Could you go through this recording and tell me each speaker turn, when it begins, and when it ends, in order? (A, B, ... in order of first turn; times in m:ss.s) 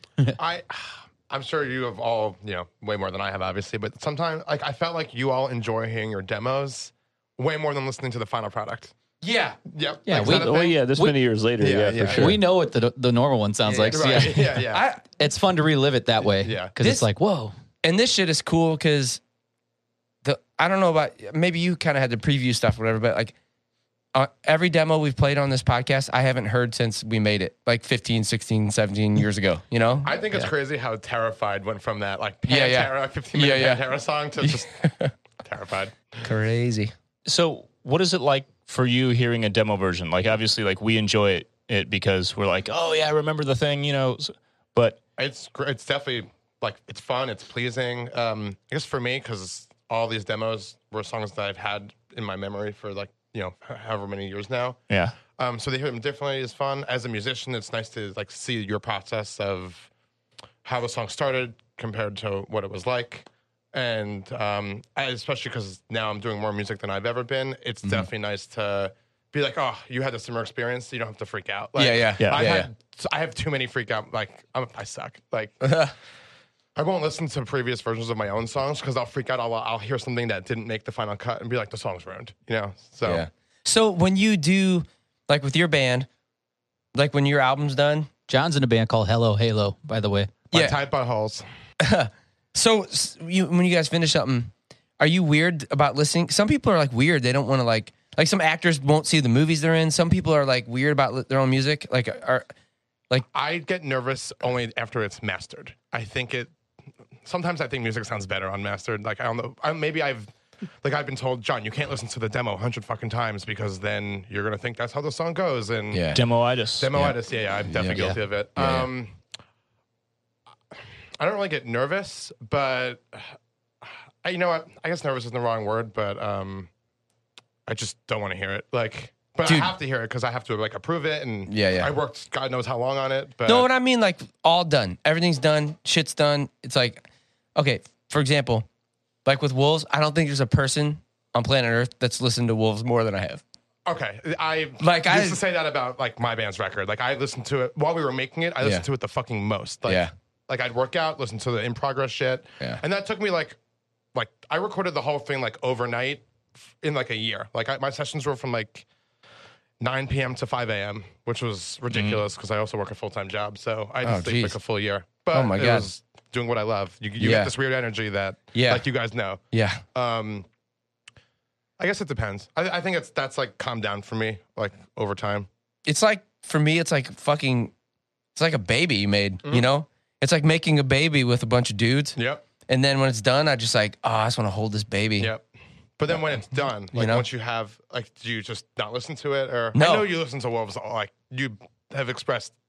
0:00.4-0:08.9 A
0:09.2-0:09.6 B
0:09.7-0:10.8 A
0:10.1-0:11.2 C
0:10.2-0:12.4 D
0:11.6-0:12.4 A
0:12.1-0:17.5 C
0:13.7-0:15.0 B
0:13.9-0:14.9 A
0:16.2-0:16.7 A
0:16.8-0:17.1 B
0:17.8-0:19.2 B
0:20.2-0:23.4 B
0:24.1-0:30.1 B
0:30.0-0:34.7 A
0:32.5-0:33.8 B
0:34.4-0:35.1 B
0:35.4-0:36.2 A
0:36.2-0:36.9 B
0:37.3-0:45.0 E
0:45.2-0:54.8 A
0:54.9-0:55.2 E
0:55.4-0:59.9 A
1:00.6-1:15.8 A
1:11.8-1:12.7 B
1:15.6-1:15.9 B
1:16.8-1:23.3 A
1:23.1-1:26.1 B
1:26.9-1:28.1 B
1:28.3-1:30.3 C
1:30.5-1:31.4 A
1:30.5-1:30.8 B
1:31.8-1:42.5 B
1:43.3-1:46.5 A
1:47.2-1:56.2 A
1:55.9-1:56.2 B
1:56.1-1:56.9 E
1:56.8-1:59.2 A
1:57.7-1:58.9 B
2:01.2-2:06.7 A
2:07.7-2:13.7 A
2:09.5-2:09.7 B
2:11.5-2:11.9 B
2:13.5-2:18.7 B
2:19.2-2:23.4 B
2:23.9-2:33.6 A
2:24.8-2:25.4 B
2:29.9-2:30.1 B
2:34.1-2:38.9 A
2:39.8-2:49.4 A
2:41.9-2:42.2 E
2:44.0-2:44.6 B
2:45.3-2:45.9 B
2:47.2-2:47.5 B
2:48.5-2:48.8 B
2:49.5-2:49.8 B
2:49.9-2:50.5 A
2:51.8-2:55.5 A
2:55.9-2:57.7 B
2:58.4-3:05.3 B
3:02.2-3:02.4 A
3:05.2-3:05.5 A
3:06.0-3:12.6 A
3:06.9-3:07.2 B
3:09.8-3:10.1 B